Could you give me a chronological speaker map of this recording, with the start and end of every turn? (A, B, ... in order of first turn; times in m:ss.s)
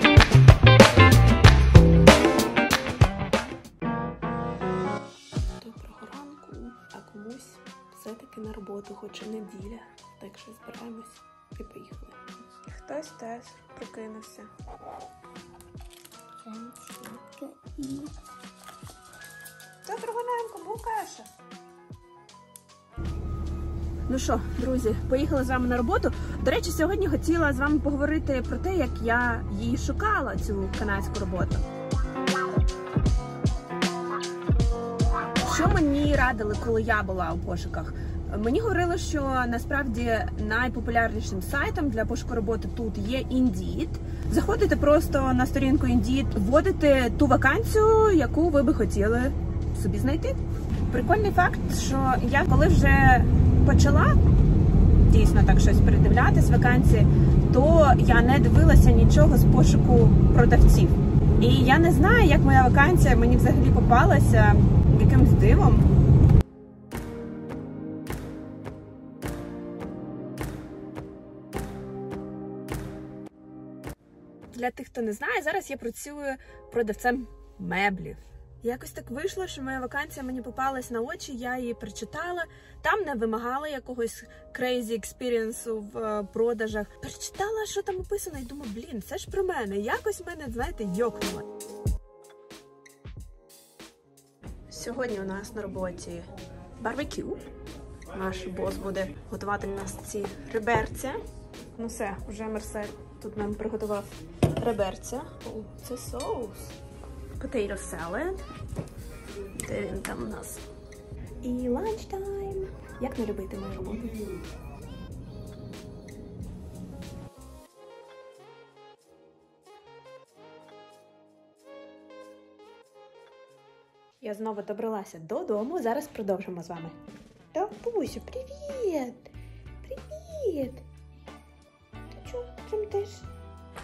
0:05.6-0:14.5 A
0:16.4-0:18.1 A
0:19.8-0:21.3 A
0:24.1-0:31.6 A
0:35.4-0:54.2 A
0:55.0-1:05.9 A
1:14.5-1:31.5 A
1:34.7-1:36.3 A
1:36.8-1:37.5 A
1:38.1-1:41.2 A
1:41.7-1:46.8 A
1:47.4-1:48.4 A
1:49.6-1:50.6 A
1:51.4-1:54.3 A
2:04.2-2:07.0 A
2:07.5-2:09.3 A
2:09.8-2:10.8 A
2:12.1-2:13.3 A